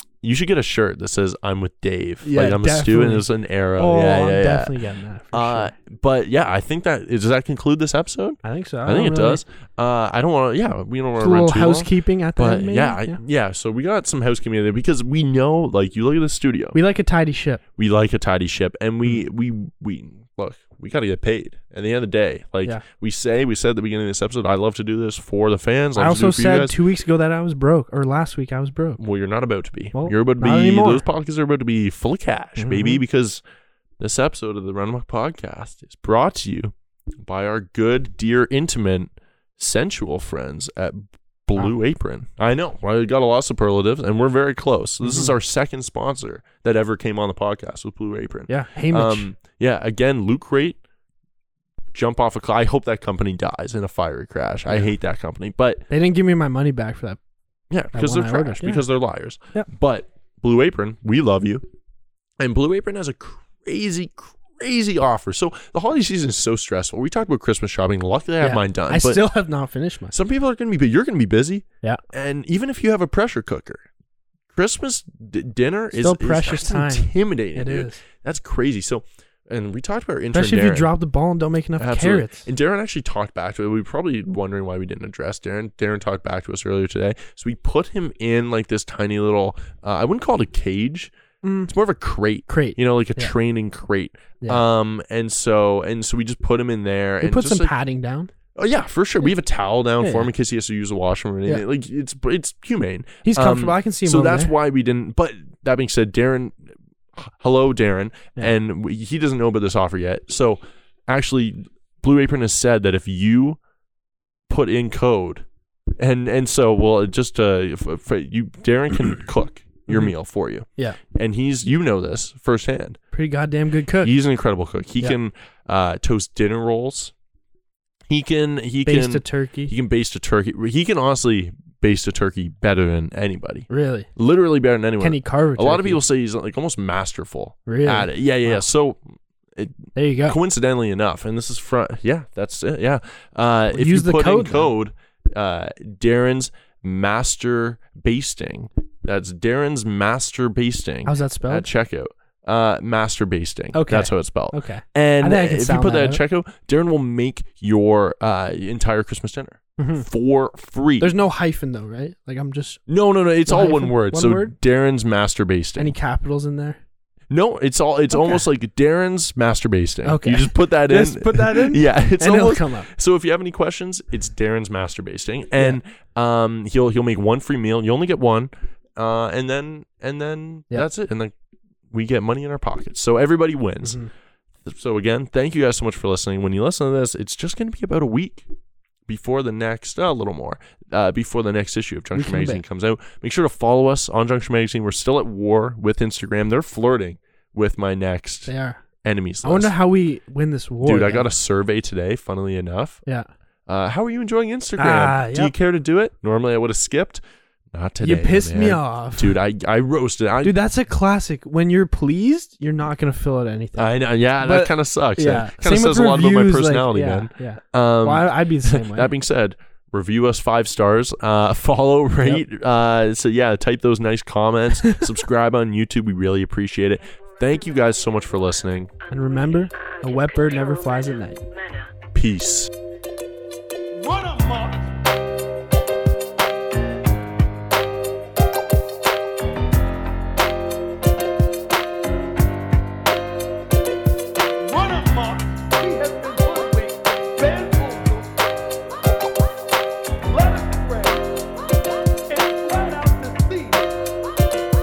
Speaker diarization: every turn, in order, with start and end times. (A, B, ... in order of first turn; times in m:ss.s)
0:00.2-0:04.8 A
0:02.2-0:03.2 B
0:03.8-0:05.7 B
0:05.3-0:16.8 A
0:08.4-0:09.4 B
0:11.2-0:13.2 B
0:16.7-0:17.6 B
0:17.8-0:26.8 A
0:26.0-0:29.0 B
0:29.0-0:33.4 A
0:29.9-0:31.0 B
0:32.6-0:33.0 B
0:34.0-0:50.8 A
0:45.0-0:45.3 B
0:48.5-0:49.3 B
0:51.9-0:55.8 A
0:55.9-0:57.2 B
0:57.7-1:01.6 A
0:57.9-0:58.8 B
1:02.4-1:09.2 A
1:08.4-1:10.1 B
1:10.1-1:13.8 A
1:14.5-1:20.9 A
1:15.9-1:18.0 B
1:20.3-1:22.4 B
1:21.8-1:31.1 A
1:31.4-1:31.7 B
1:31.7-1:37.7 A
1:32.5-1:33.3 B
1:37.2-1:38.3 B
1:38.5-1:53.6 A
1:40.0-1:40.3 B
1:43.2-1:44.5 B
1:54.5-1:55.4 A
1:56.0-2:03.0 A
2:03.1-2:04.1 B
2:04.0-2:07.1 A
2:08.1-2:19.0 A
2:08.8-2:09.7 B
2:13.7-2:14.1 B
2:15.0-2:16.0 B
2:17.6-2:18.6 B
2:19.6-2:41.1 A
2:20.0-2:20.4 B
2:23.7-2:24.7 B
2:31.0-2:31.7 B
2:33.7-2:36.2 B
2:39.8-2:40.0 B
2:41.0-2:42.8 B
2:42.9-2:46.0 A
2:43.4-2:44.5 B
2:45.8-2:46.8 B
2:47.3-3:01.3 A
2:48.1-2:48.4 B
2:50.0-2:52.9 B
3:01.9-3:04.0 A
3:03.8-3:04.1 B
3:04.6-3:08.5 A
3:09.1-3:18.5 A
3:12.1-3:12.6 B
3:18.5-3:18.8 B
3:19.0-3:19.7 A
3:19.4-3:21.3 B
3:20.8-3:23.0 A
3:23.7-3:30.6 A
3:24.8-3:25.5 B
3:28.0-3:29.4 B
3:30.4-3:39.1 B
3:33.8-3:48.9 A
3:49.1-3:51.4 B
3:49.5-3:51.9 C
3:52.1-3:52.7 A
4:05.6-4:08.3 A
4:10.4-4:11.2 A
4:12.4-4:13.7 A